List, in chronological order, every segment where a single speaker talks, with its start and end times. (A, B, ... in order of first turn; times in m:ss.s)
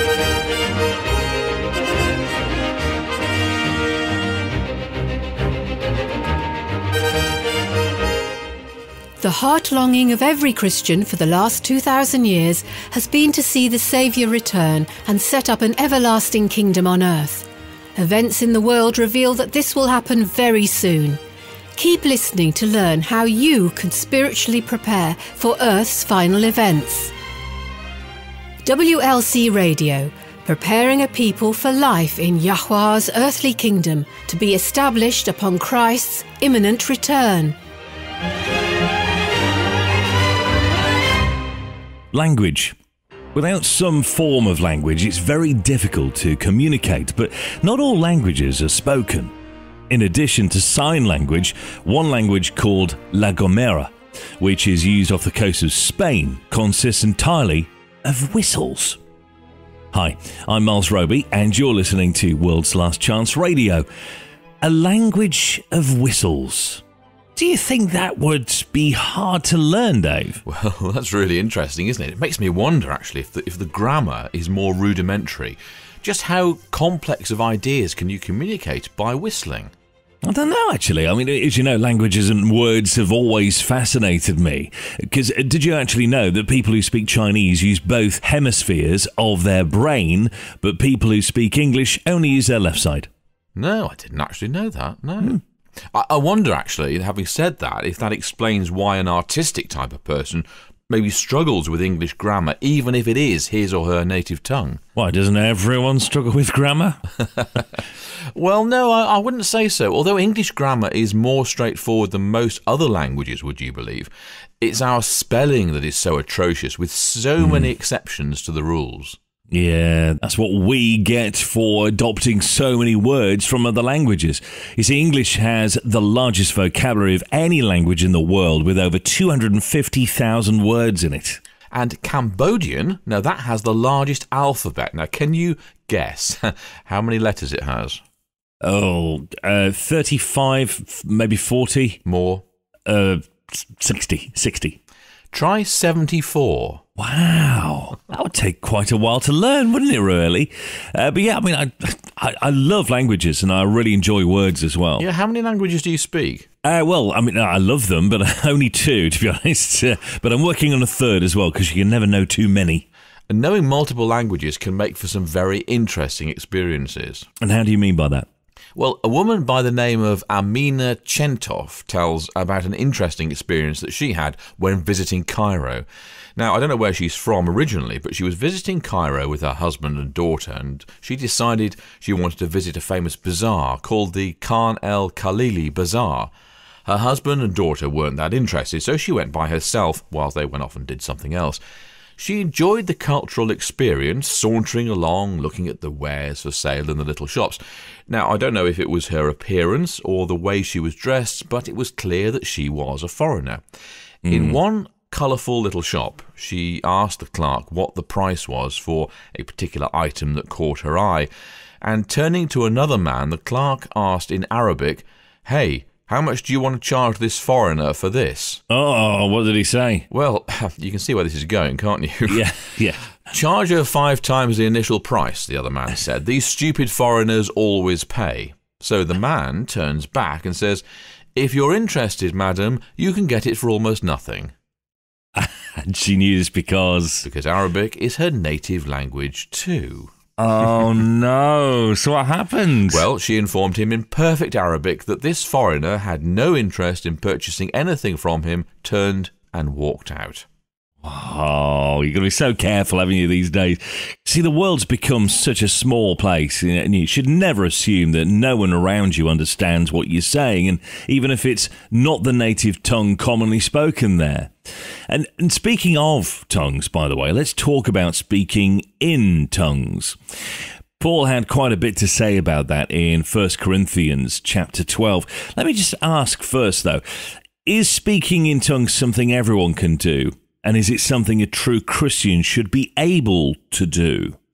0:09.2-0:21.2 A
0:21.8-0:27.1 A
0:28.6-0:37.6 A
0:42.1-0:42.8 B
0:43.3-0:49.3 B
0:49.9-0:59.0 B
0:59.9-1:03.8 B
1:04.6-1:06.8 B
1:07.4-1:10.4 B
1:10.4-1:19.7 C
1:20.2-1:33.1 B
1:33.6-1:35.4 C
1:35.9-1:44.8 C
1:45.0-1:47.0 B
1:48.3-1:59.2 C
1:57.4-1:57.7 B
1:59.5-2:11.4 B
2:11.7-2:18.0 C
2:18.6-2:22.0 B
2:22.0-2:22.4 C
2:22.8-2:24.8 B
2:25.3-2:26.8 C
2:27.0-2:35.1 B
2:35.0-2:36.5 C
2:36.6-2:42.8 B
2:43.3-2:47.3 C
2:47.4-2:48.3 B
2:48.8-3:06.3 C
3:06.8-3:11.6 C
3:12.2-3:23.6 C
3:24.2-3:24.6 B
3:24.3-3:31.3 C
3:31.8-3:38.6 C
3:38.7-3:40.1 B
3:40.1-3:42.5 C
3:42.3-3:43.1 B
3:43.3-3:50.8 C
3:51.3-3:54.5 C
3:55.3-3:57.3 B
3:57.2-4:00.1 C
4:00.4-4:03.0 B
4:02.9-4:10.4 C
4:11.0-4:30.4 B
4:31.0-4:44.4 B